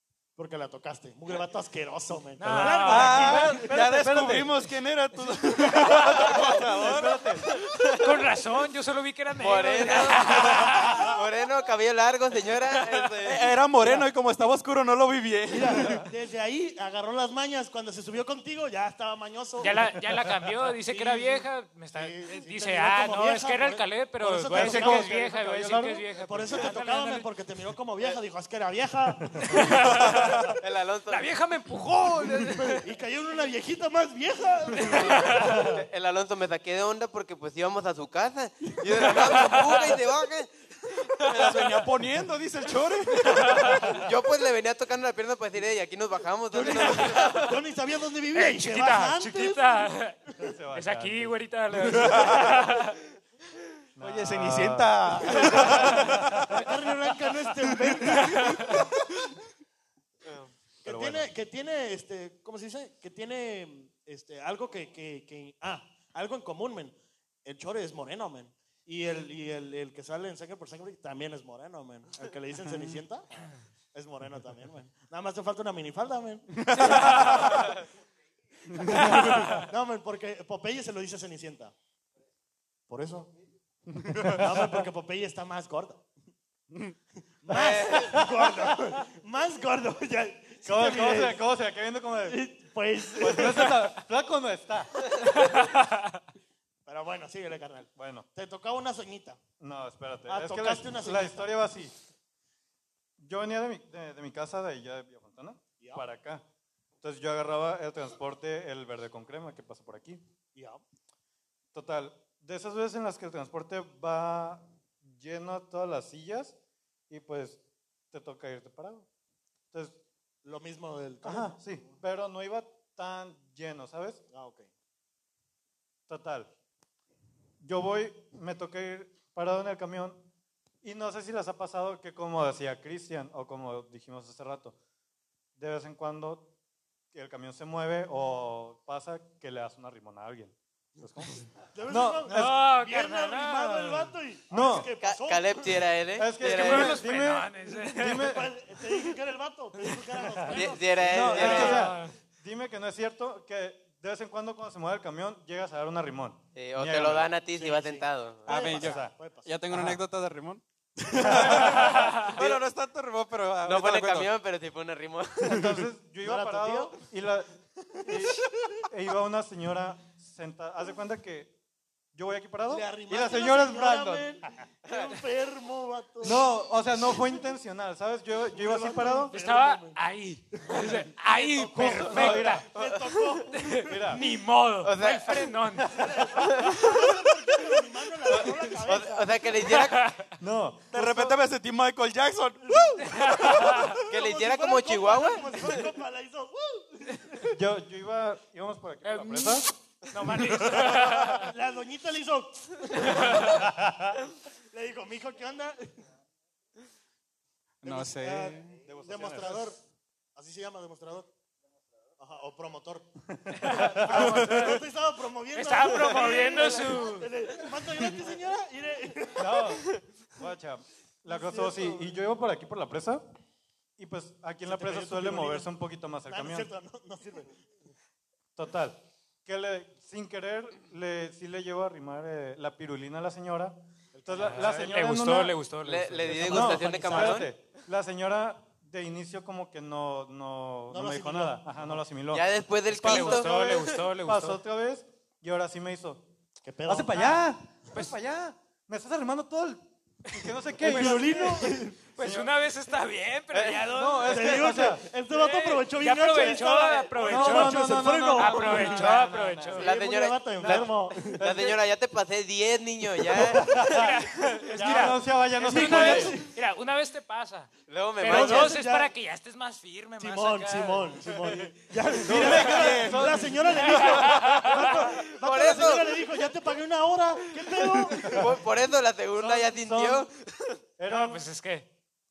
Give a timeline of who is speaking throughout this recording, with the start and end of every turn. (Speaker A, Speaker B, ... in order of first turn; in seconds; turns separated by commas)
Speaker A: 0.4-3.8, Speaker B: 2.4-3.4, Speaker C: 2.4-4.6, Speaker D: 2.8-7.3, Speaker C: 5.6-7.5, Speaker E: 7.5-8.2, Speaker B: 8.0-11.2, Speaker E: 9.4-13.5, Speaker D: 13.2-16.0, Speaker A: 13.8-14.1, Speaker A: 15.5-19.9, Speaker B: 19.6-27.3, Speaker A: 20.9-25.1, Speaker C: 24.5-26.6, Speaker A: 26.2-30.3, Speaker B: 29.4-30.6, Speaker E: 29.9-31.3, Speaker B: 31.1-32.9, Speaker A: 32.5-35.7, Speaker B: 34.8-35.7, Speaker E: 35.5-41.4, Speaker B: 39.3-39.9, Speaker D: 41.3-43.7, Speaker B: 43.2-44.0, Speaker E: 43.5-47.5, Speaker A: 46.5-49.9, Speaker B: 46.7-47.5, Speaker B: 48.3-50.2, Speaker C: 50.4-52.3, Speaker B: 50.7-53.0, Speaker C: 54.0-56.6, Speaker D: 54.0-56.7, Speaker A: 55.4-55.9, Speaker A: 56.5-58.8, Speaker B: 58.1-58.9, Speaker E: 60.2-60.5, Speaker C: 60.8-61.3, Speaker A: 60.9-77.7, Speaker A: 78.7-81.7, Speaker C: 78.9-79.4, Speaker A: 82.9-83.3, Speaker C: 84.1-84.6, Speaker A: 84.3-86.1, Speaker A: 87.4-91.4, Speaker E: 87.5-88.3, Speaker C: 90.7-92.4, Speaker A: 92.3-93.9, Speaker C: 93.2-95.1, Speaker B: 95.4-96.2, Speaker A: 96.9-99.4, Speaker C: 98.0-98.3, Speaker C: 99.6-102.0, Speaker A: 100.3-101.5, Speaker C: 103.2-106.4, Speaker C: 107.0-110.2, Speaker A: 110.5-110.8, Speaker C: 111.7-116.5, Speaker C: 117.1-117.6, Speaker C: 118.1-119.1, Speaker C: 119.7-120.0, Speaker A: 120.4-122.0, Speaker C: 121.2-124.2, Speaker A: 124.3-124.7, Speaker C: 126.1-126.5, Speaker C: 127.6-130.3, Speaker C: 130.8-134.8, Speaker C: 135.6-136.5, Speaker C: 137.1-142.7, Speaker A: 141.7-145.9, Speaker B: 142.3-144.1, Speaker C: 144.5-144.9, Speaker E: 145.0-147.0, Speaker C: 146.2-148.5, Speaker B: 146.4-148.3, Speaker A: 148.2-151.7, Speaker E: 150.5-151.9, Speaker C: 151.1-157.3, Speaker B: 151.3-152.2, Speaker E: 156.6-158.8, Speaker A: 157.6-159.5, Speaker D: 158.5-164.3, Speaker C: 158.7-159.1, Speaker C: 159.7-160.0, Speaker C: 161.2-162.1, Speaker B: 161.8-162.4, Speaker E: 162.3-162.7, Speaker E: 163.6-165.7, Speaker C: 165.4-171.5, Speaker A: 166.2-167.0, Speaker A: 168.0-168.6, Speaker C: 172.1-174.3, Speaker A: 172.7-176.5, Speaker C: 176.2-179.3, Speaker A: 178.5-180.0, Speaker B: 179.3-182.7, Speaker A: 180.6-181.0, Speaker C: 181.6-182.6, Speaker A: 181.8-184.2, Speaker E: 182.7-183.3, Speaker B: 183.5-186.3, Speaker C: 183.8-184.2, Speaker E: 184.8-185.6, Speaker C: 185.8-186.3, Speaker A: 186.0-189.4, Speaker E: 186.4-187.0, Speaker E: 188.9-190.1, Speaker B: 189.6-190.3, Speaker C: 190.4-191.4, Speaker D: 190.9-193.9, Speaker A: 192.7-197.6, Speaker B: 193.0-194.0, Speaker E: 194.1-195.8, Speaker C: 197.5-199.7, Speaker B: 199.0-201.5, Speaker A: 200.8-203.8, Speaker C: 203.4-204.2, Speaker A: 204.7-206.0, Speaker D: 207.8-208.8, Speaker A: 207.8-209.8, Speaker C: 208.8-209.7, Speaker A: 210.3-211.3, Speaker A: 212.2-213.1, Speaker C: 213.3-214.8, Speaker B: 213.6-214.8, Speaker A: 213.6-219.8, Speaker B: 215.5-217.3, Speaker C: 219.4-223.2, Speaker A: 221.3-222.1, Speaker C: 224.0-226.7, Speaker A: 224.7-225.7, Speaker A: 226.3-227.6, Speaker C: 228.6-235.6, Speaker A: 234.1-234.9, Speaker B: 234.4-237.3, Speaker E: 235.8-237.6, Speaker C: 236.3-246.3, Speaker A: 236.9-237.2, Speaker A: 240.9-242.0, Speaker E: 242.3-243.8, Speaker B: 242.9-244.6, Speaker A: 246.6-247.3, Speaker C: 246.9-252.5, Speaker B: 250.5-251.3, Speaker A: 250.8-252.0, Speaker B: 252.1-260.0, Speaker C: 253.6-255.1, Speaker A: 254.3-259.1, Speaker C: 257.2-259.9, Speaker E: 259.8-264.1, Speaker A: 259.8-261.4, Speaker C: 260.6-261.8, Speaker C: 263.3-266.4, Speaker B: 263.8-271.6, Speaker A: 265.6-266.6, Speaker E: 267.9-268.8, Speaker A: 268.2-269.1, Speaker A: 270.2-278.5, Speaker C: 272.2-274.9, Speaker D: 272.4-273.5, Speaker B: 273.8-275.1, Speaker E: 275.2-276.3, Speaker E: 278.1-280.8, Speaker C: 279.4-280.3, Speaker C: 281.0-281.4, Speaker B: 281.1-281.9